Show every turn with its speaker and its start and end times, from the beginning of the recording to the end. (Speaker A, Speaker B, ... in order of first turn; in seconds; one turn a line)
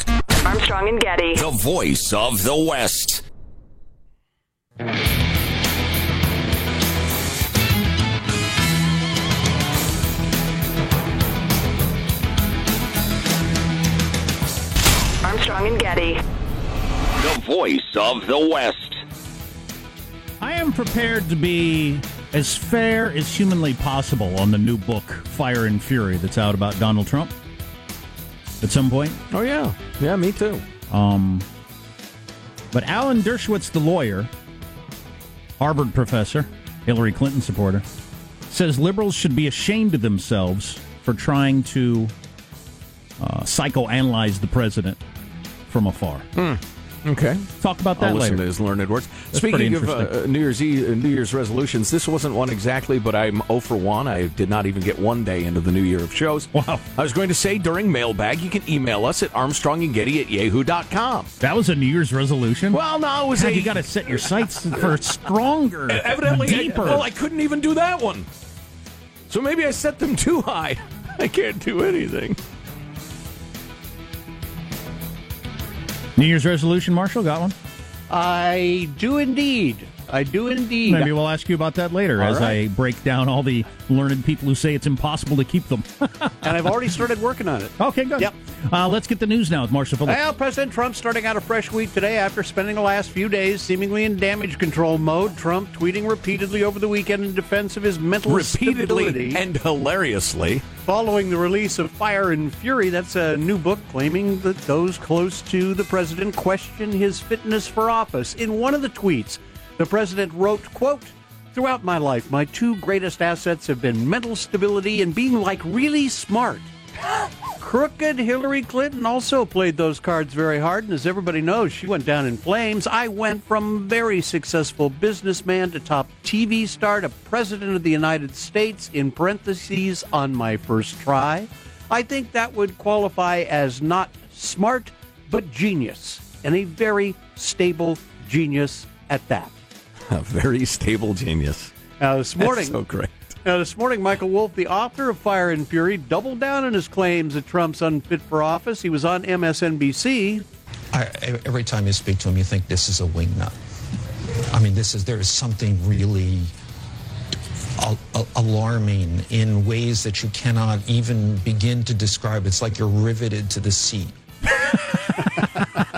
Speaker A: 0.4-1.5
Speaker B: 1.4-3.2
Speaker A: 15.2-16.2
Speaker B: 17.2-19.0
Speaker C: 20.4-27.3
Speaker C: 28.6-29.2
Speaker D: 29.3-30.6
Speaker C: 30.9-31.4
Speaker C: 32.7-34.3
Speaker C: 35.6-37.8
Speaker C: 38.5-42.1
Speaker C: 43.2-45.0
Speaker C: 45.7-46.2
Speaker D: 46.4-61.3
Speaker C: 47.6-48.4
Speaker C: 49.3-50.1
Speaker C: 56.5-56.8
Speaker C: 61.4-62.8
Speaker D: 62.7-64.9
Speaker C: 63.3-67.0
Speaker D: 65.9-68.3
Speaker D: 69.3-72.4
Speaker C: 76.2-77.5
Speaker E: 78.1-81.1
Speaker C: 80.9-86.7
Speaker E: 82.2-82.6
Speaker E: 86.4-88.3
Speaker C: 87.8-90.2
Speaker E: 90.0-99.4
Speaker D: 98.2-100.6
Speaker E: 100.8-116.7
Speaker E: 117.6-139.5
Speaker D: 140.1-141.7
Speaker E: 142.0-142.8
Speaker D: 142.4-143.3
Speaker E: 143.4-150.4
Speaker F: 150.9-153.5
Speaker F: 154.5-156.5
Speaker F: 157.8-164.2
Speaker C: 164.6-165.5